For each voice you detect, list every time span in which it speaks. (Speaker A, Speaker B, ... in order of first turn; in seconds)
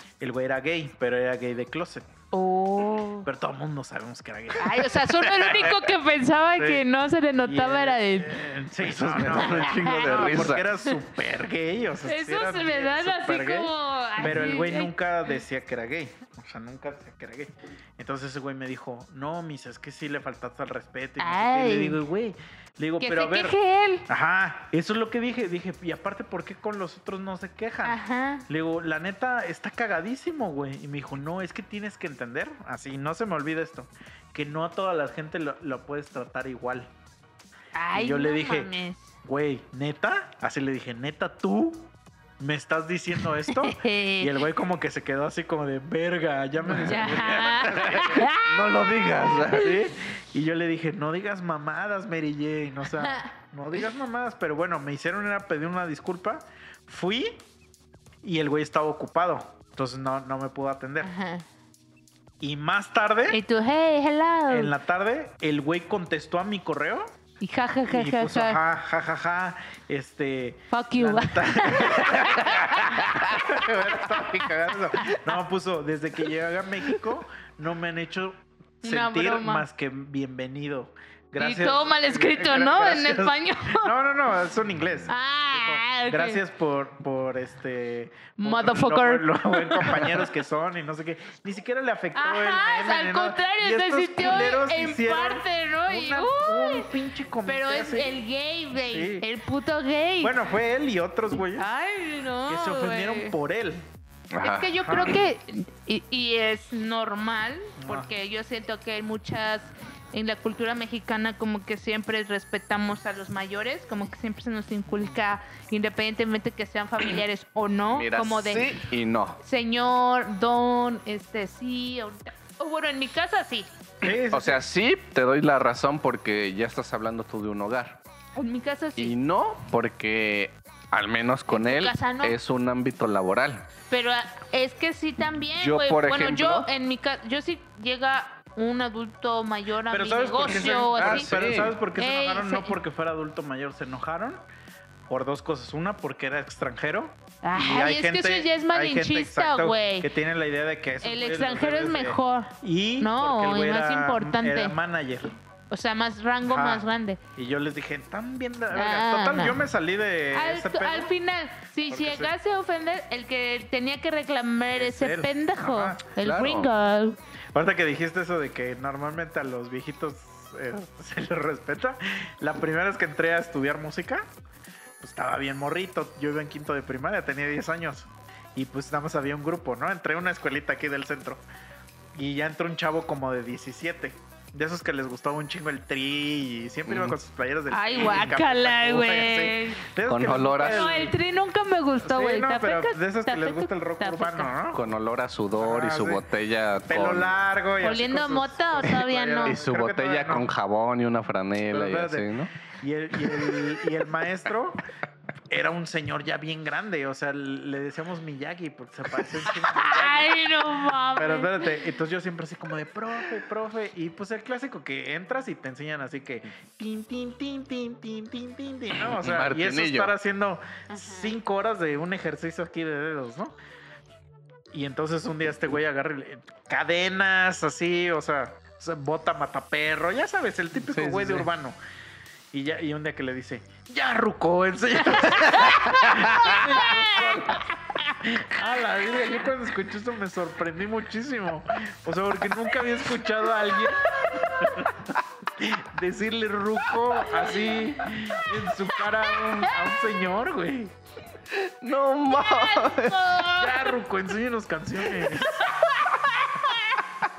Speaker A: 0.2-2.1, 3.2-5.9, 6.6-6.8, 7.4-23.6, 24.1-36.9, 37.9-38.7, 39.2-48.3, 49.4-57.4, 58.2-61.1, 62.4-63.4, 64.5-67.1, 67.9-98.2, 98.9-99.3, 100.2-101.7, 102.5-103.9, 104.8-105.2, 107.8-108.1, 114.9-115.2, 124.0-124.6, 139.9-144.4, 145.1-155.3, 156.4-161.1, 161.9-162.3, 164.8-166.1, 167.5-174.3, 175.0-181.4, 182.1-191.1, 192.0-194.8, 195.6-196.2, 196.9-200.5, 201.7-204.8, 205.5-210.5, 211.2-223.5, 224.7-231.8, 232.5-250.9, 253.5-255.7
Speaker B: 2.3-3.3, 4.6-8.4, 9.3-10.9, 12.1-14.9, 21.2-22.0, 23.0-24.1, 27.8-28.4, 37.7-39.1, 43.5-44.4, 46.7-48.5, 53.0-53.3, 61.0-61.5, 63.3-64.7, 67.4-68.6, 70.7-75.2, 78.8-79.7, 81.4-83.9, 85.1-86.4, 88.4-90.2, 92.1-100.3, 101.5-103.3, 104.4-118.8, 119.4-123.7, 128.3-129.1, 131.5-132.3, 133.9-141.3, 141.9-142.8, 147.4-150.1, 151.0-154.8, 155.7-157.2, 158.7-159.6, 160.3-167.2, 187.7-189.8, 190.6-194.5, 197.8-199.6, 209.5-211.7, 220.9-221.3, 235.1-237.7, 244.1-244.7, 247.2-249.9, 252.3-254.0, 255.5-257.0
Speaker C: 8.8-10.7, 46.7-49.8, 104.3-105.2, 117.9-119.4, 124.3-128.0, 129.0-133.7, 135.5-136.7, 140.5-141.8, 166.2-166.7, 186.9-187.2, 190.0-190.9, 194.7-197.3, 199.4-202.5, 203.3-203.6, 218.9-220.1, 230.8-231.5, 235.7-236.6, 251.5-253.3